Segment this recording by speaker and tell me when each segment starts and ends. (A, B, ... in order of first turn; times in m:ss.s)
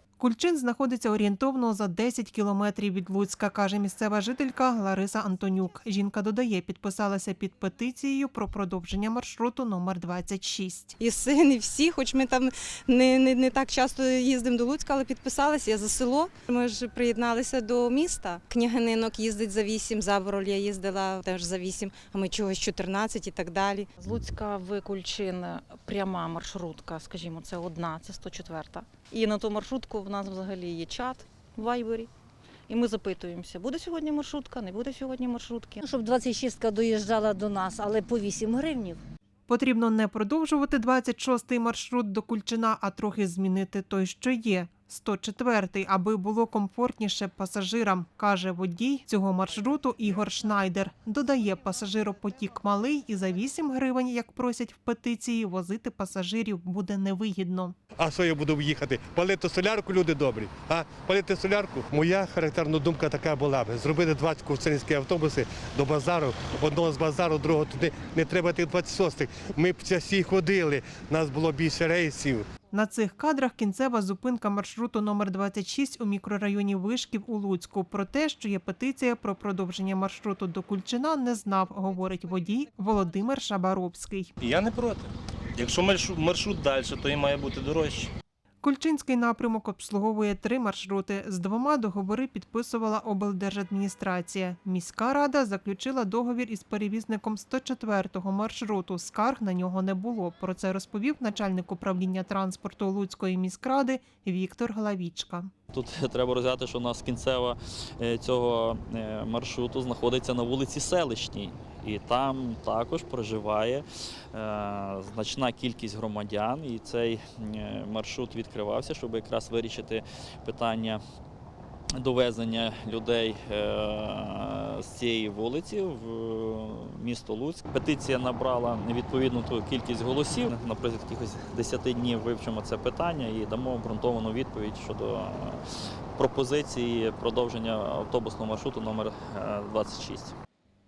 0:00.2-0:11.0 A
0:11.0-0:23.9 B
0:24.0-0:32.1 C
0:32.7-0:35.8 C
0:35.8-0:39.0 D
0:39.5-0:57.7 A
0:58.0-1:12.5 E
1:12.7-1:24.3 A
1:24.4-1:28.1 F
1:28.6-1:45.5 A
1:45.7-2:01.0 G
2:02.0-2:15.6 G
2:16.2-2:20.3 G